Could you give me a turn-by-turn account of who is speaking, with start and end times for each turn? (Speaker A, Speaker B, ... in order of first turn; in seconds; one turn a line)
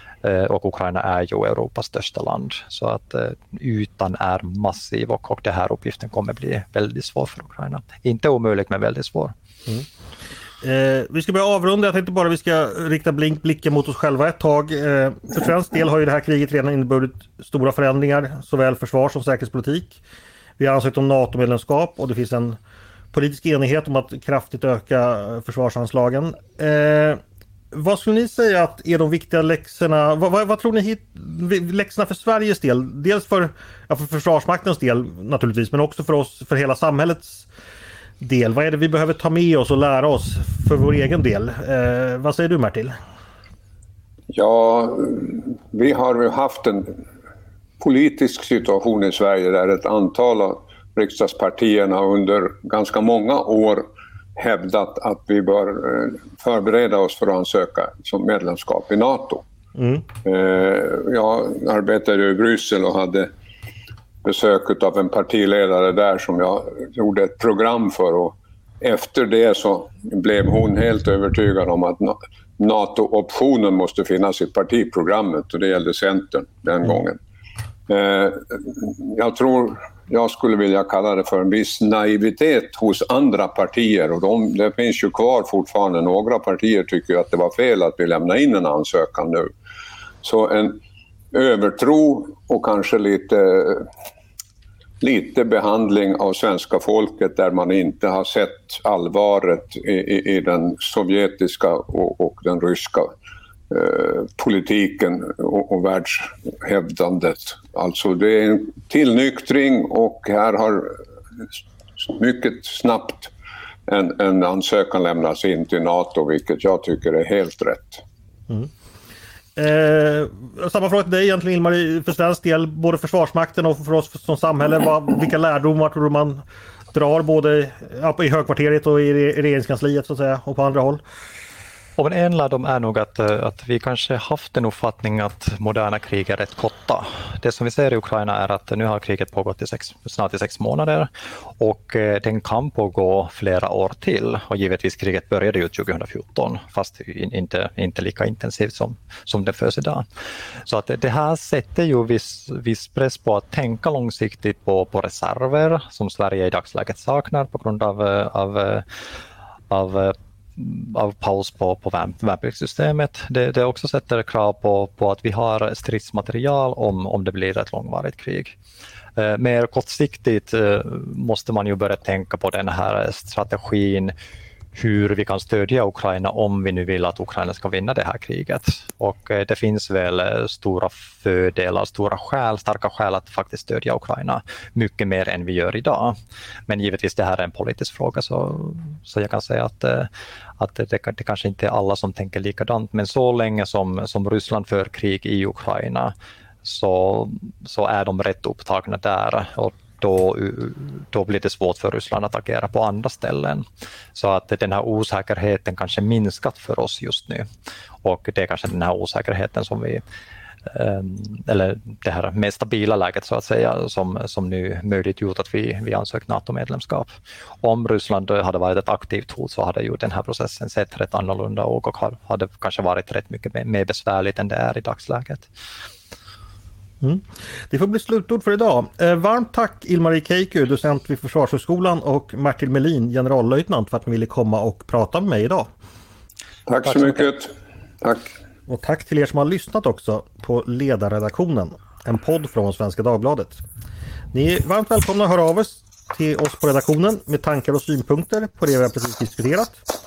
Speaker A: 0.2-9.3
Speaker B: 10.6-20.0
Speaker B: 20.6-22.6
Speaker B: 23.1-27.2
Speaker B: 27.7-37.5
Speaker B: 38.2-42.9
Speaker C: 44.3-46.9
Speaker C: 47.8-59.4
Speaker B: 59.8-60.0
Speaker C: 60.2-63.3
Speaker C: 64.2-77.2
Speaker C: 77.9-89.5
Speaker C: 90.2-90.8
Speaker C: 91.3-93.9
Speaker C: 95.0-103.1
Speaker C: 103.7-111.0
Speaker C: 112.0-113.3
Speaker C: 113.9-118.0
Speaker B: 119.5-131.0
Speaker A: 132.0-150.1
Speaker A: 150.6-158.8
Speaker A: 159.7-168.6
Speaker A: 169.2-174.1
Speaker A: 174.7-186.2
Speaker A: 186.7-207.4
Speaker A: 208.0-210.0
Speaker A: 210.6-225.5
Speaker B: 227.0-235.7
Speaker C: 236.7-238.3
Speaker B: 238.7-243.6
Speaker B: 244.3-249.8